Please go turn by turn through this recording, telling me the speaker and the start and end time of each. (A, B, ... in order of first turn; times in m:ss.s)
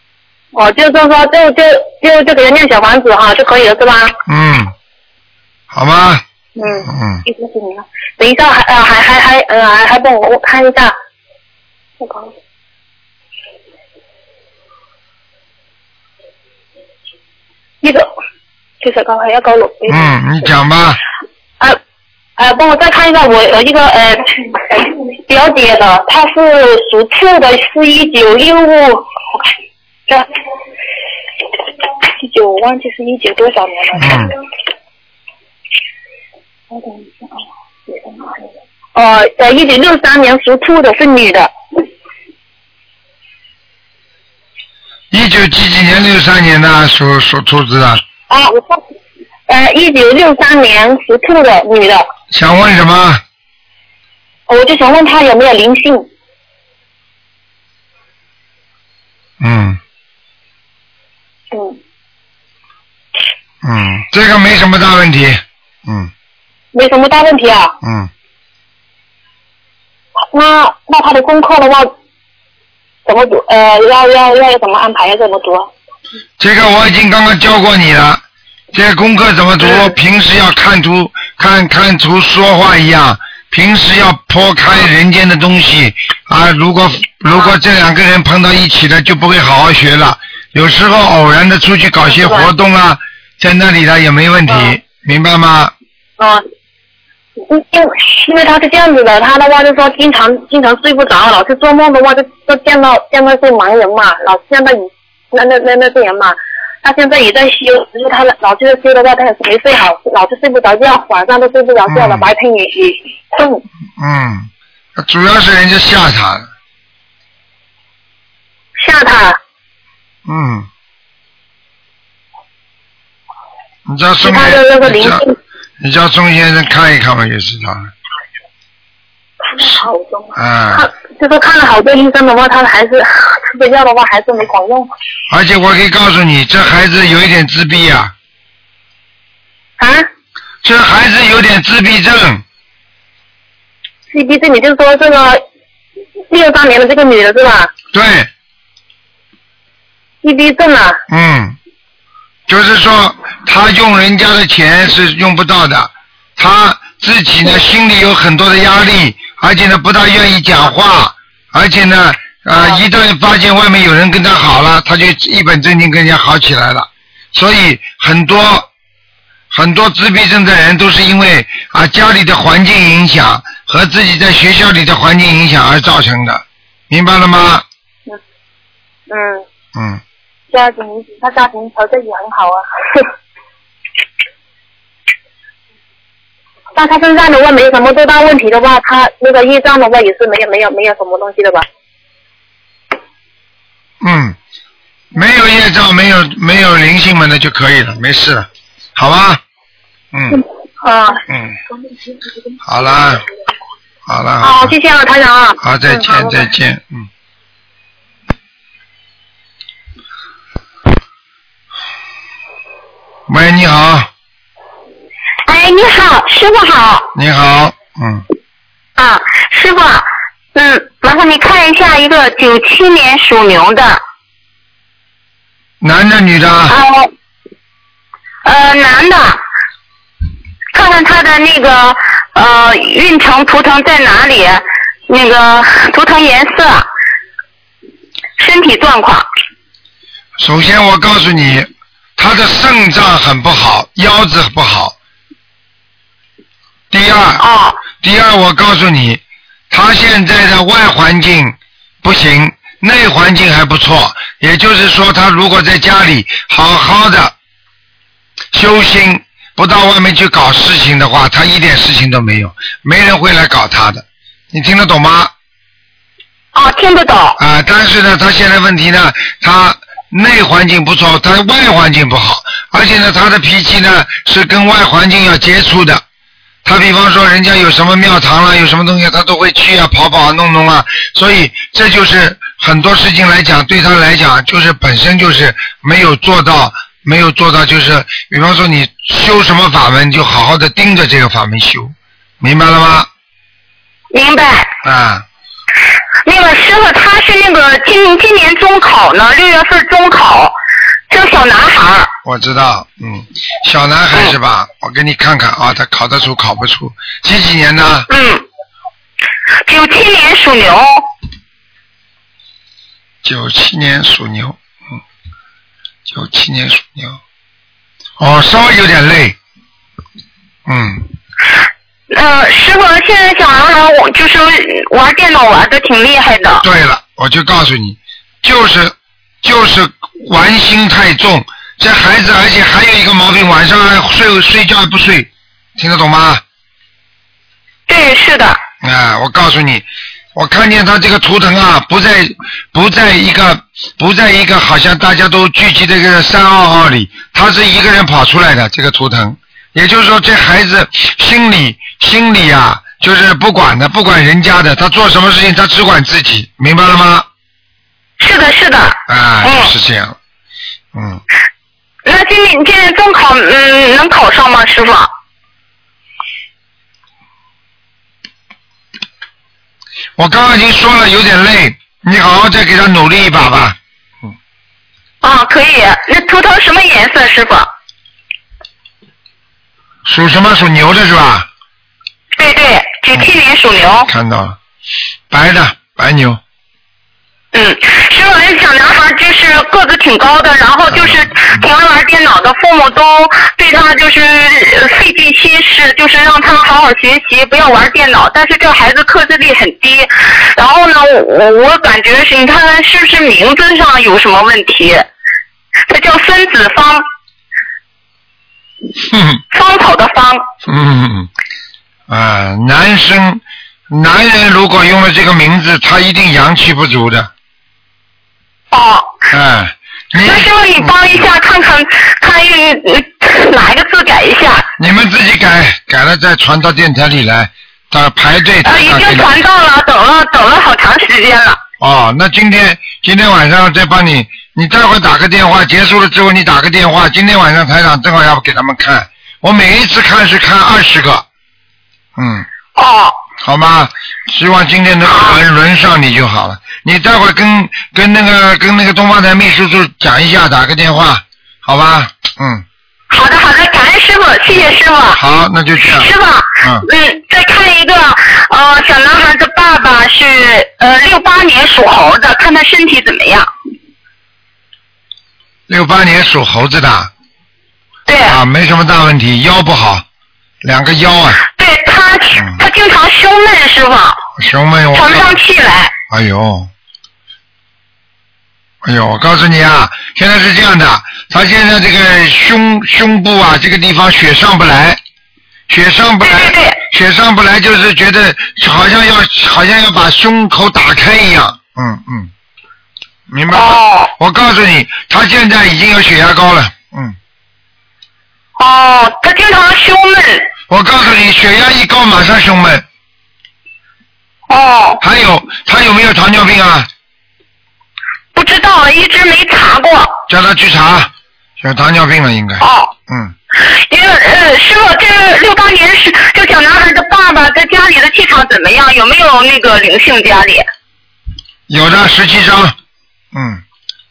0:00.5-0:04.2 A
0:04.3-0:04.7 B
0:05.7-0:06.2 B
0:06.6-0:11.0 A
0:06.8-0:07.2 B
0:12.0-0:12.3 A
0:17.8-0:18.1 A
0:18.8-0:20.1 A
0:19.9-0:21.0 B
0:22.4-0:29.1 A
0:32.2-0:34.3 A
0:34.0-0:34.3 B
0:36.7-0:37.3 A
0:37.9-0:38.3 A
0:39.0-0:41.5 A
0:45.1-0:48.0 B
0:48.3-0:48.8 A
0:49.5-0:52.1 A
0:52.3-0:53.2 B
0:54.5-0:56.1 A
0:59.4-0:59.8 B
1:01.5-1:01.8 A
1:03.6-1:06.1 B
1:06.7-1:07.7 A
1:07.8-1:08.1 B
1:10.2-1:11.9 A
1:13.1-1:15.7 A
1:16.4-1:35.7 B
1:19.6-1:19.9 A
1:27.3-1:27.6 A
1:32.0-1:32.5 A
1:34.5-1:34.8 A
1:36.2-1:36.4 A
1:37.5-1:53.6 A
1:51.9-1:52.3 B
1:54.0-1:56.5 B
1:58.8-1:59.4 A
2:00.3-2:00.7 B
2:03.9-2:05.2 B
2:04.2-2:05.4 A
2:05.8-2:07.9 B
2:09.5-2:14.9 A
2:10.4-2:10.9 B
2:15.3-2:18.1 B
2:19.8-2:20.1 A
2:20.6-2:22.4 B
2:24.1-2:25.4 A
2:26.3-2:27.7 A
2:27.9-2:28.3 B
2:30.2-2:31.0 A
2:31.1-2:31.6 B
2:32.5-2:48.7 B
2:49.5-2:57.6 B
2:59.1-2:59.4 A
2:59.8-3:00.0 B
3:00.5-3:03.1 A
3:06.8-3:11.7 A
3:14.0-3:14.4 B
3:15.1-3:19.4 B
3:20.1-3:20.4 B
3:20.8-3:21.2 A
3:21.3-3:21.6 B
3:22.6-3:23.2 B
3:24.1-3:24.8 B
3:24.4-3:26.5 A
3:25.6-3:27.1 B
3:33.3-3:34.1 B
3:35.5-3:37.1 C
3:37.2-3:38.2 B
3:39.0-3:44.0 C
3:45.8-3:46.8 B
3:46.7-3:47.1 C
3:48.4-3:49.4 C
3:50.7-3:56.9 C
3:58.4-3:59.3 C
4:00.4-4:05.0 B
4:06.9-4:07.4 B
4:07.4-4:07.8 C
4:08.0-4:17.4 B
4:18.5-4:25.3 B
4:26.5-4:27.4 C
4:27.4-4:36.0 B
4:36.6-4:53.1 B
4:54.1-4:54.7 C
4:54.8-4:55.2 B
4:56.3-5:00.6 C
5:01.1-5:02.1 C
5:02.2-5:08.1 B
5:08.1-5:08.4 C
5:09.7-5:11.0 C
5:13.2-5:14.6 B
5:16.1-5:17.2 B
5:18.2-5:19.4 B
5:20.7-5:21.1 B
5:22.1-5:26.6 C
5:26.6-5:36.4 B
5:37.9-5:38.6 C
5:38.8-5:57.3 B
5:58.2-5:59.7 C
5:59.1-6:00.2 B
6:00.9-6:01.2 B
6:02.0-6:05.1 C
6:10.2-6:13.8 B
6:15.2-6:17.7 C
6:20.0-6:21.5 B
6:22.4-6:24.1 C
6:23.9-6:24.6 B
6:25.3-6:26.4 B
6:27.5-6:45.1 C
6:30.9-6:31.6 B
6:45.9-6:47.0 C
6:49.1-6:49.4 B
6:49.5-6:50.5 C
6:50.7-6:51.3 B
6:52.1-6:57.3 B
6:58.7-6:59.2 C
6:59.3-7:01.2 B
7:00.2-7:04.7 C
7:04.8-7:09.3 B
7:08.6-7:11.6 C
7:11.8-7:21.2 B
7:22.2-7:22.5 B
7:22.8-7:23.2 C
7:23.4-7:32.6 B
7:25.1-7:25.4 C
7:33.1-7:35.2 C
7:35.1-7:36.9 B
7:35.8-7:43.5 C
7:45.7-7:47.1 B
7:48.1-7:48.4 C
7:48.2-7:50.0 B
7:50.6-7:51.4 B
7:51.4-7:54.2 C
7:52.3-7:52.6 B
7:54.4-7:55.4 B
7:54.9-7:55.9 C
7:56.1-7:56.7 B
7:58.8-8:05.0 B
8:05.7-8:12.3 B
8:06.2-8:06.8 C
8:13.3-8:17.2 B
8:13.5-8:14.1 C
8:18.6-8:20.5 C
8:20.7-8:22.8 B
8:24.5-8:25.0 C
8:25.0-8:26.9 B
8:28.3-8:30.2 C
8:30.3-8:33.3 B
8:32.6-8:32.9 C
8:33.5-8:40.6 C
8:41.7-8:42.8 B
8:43.3-8:43.6 B